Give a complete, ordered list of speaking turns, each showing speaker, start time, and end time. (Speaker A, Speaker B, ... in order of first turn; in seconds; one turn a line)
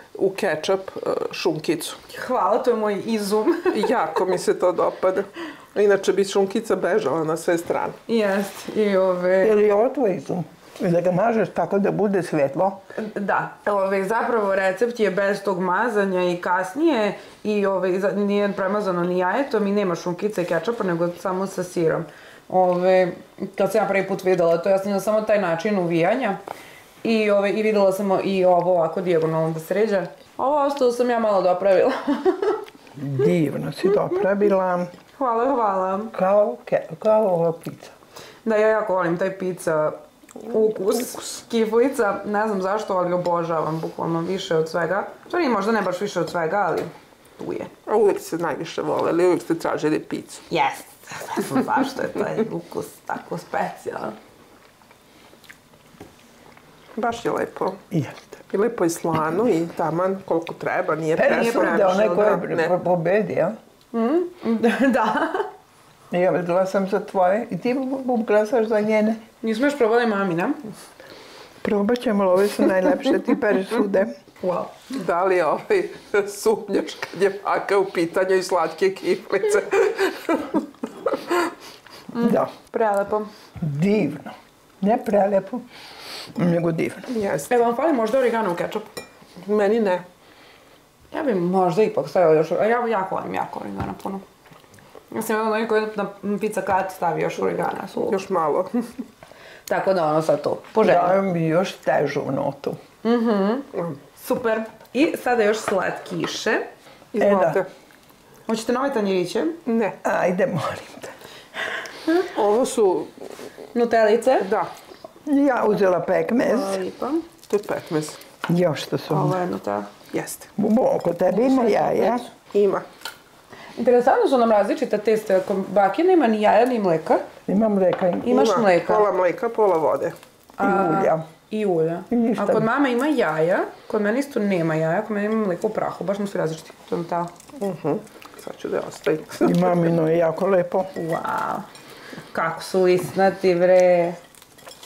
Speaker A: 0.1-2.0
Speaker B: 2.1-3.8
Speaker A: 3.7-8.0
Speaker B: 8.1-9.6
Speaker C: 9.4-12.8
Speaker B: 12.9-26.4
Speaker B: 27.0-32.6
Speaker C: 33.0-34.9
Speaker B: 35.2-36.1
Speaker C: 36.1-37.9
Speaker B: 38.5-47.7
Speaker A: 47.9-50.4
Speaker B: 50.5-54.2
Speaker A: 57.0-57.8
Speaker C: 57.9-58.4
Speaker A: 58.5-62.7
Speaker C: 61.1-63.6
Speaker B: 61.2-62.0
Speaker B: 63.9-65.5
Speaker C: 66.1-69.2
Speaker B: 69.4-70.6
Speaker C: 71.6-74.1
Speaker B: 74.4-74.9
Speaker A: 74.9-81.5
Speaker C: 82.1-82.5
Speaker B: 82.1-83.3
Speaker C: 83.6-85.6
Speaker C: 86.3-87.1
Speaker A: 87.1-87.5
Speaker B: 87.5-88.9
Speaker A: 89.4-90.0
Speaker B: 91.1-94.2
Speaker B: 95.1-98.2
Speaker A: 98.1-98.9
Speaker B: 99.7-101.2
Speaker C: 100.8-102.8
Speaker B: 103.0-106.7
Speaker A: 103.7-104.0
Speaker A: 107.1-107.7
Speaker C: 107.2-107.6
Speaker B: 108.5-109.6
Speaker A: 109.7-110.0
Speaker C: 110.0-111.2
Speaker A: 112.3-113.1
Speaker B: 113.7-114.5
Speaker A: 114.4-114.7
Speaker C: 115.3-116.8
Speaker B: 116.4-117.2
Speaker A: 117.5-118.2
Speaker C: 118.5-119.4
Speaker B: 119.1-119.9
Speaker A: 120.1-120.5
Speaker C: 120.6-122.2
Speaker B: 121.3-122.3
Speaker A: 122.5-122.8
Speaker B: 123.8-127.3
Speaker C: 127.5-128.4
Speaker B: 128.2-129.1
Speaker A: 128.3-130.2
Speaker B: 130.6-137.3
Speaker C: 130.6-131.2
Speaker C: 132.1-132.7
Speaker A: 137.6-139.8
Speaker C: 139.4-140.9
Speaker B: 140.9-141.7
Speaker B: 142.3-144.2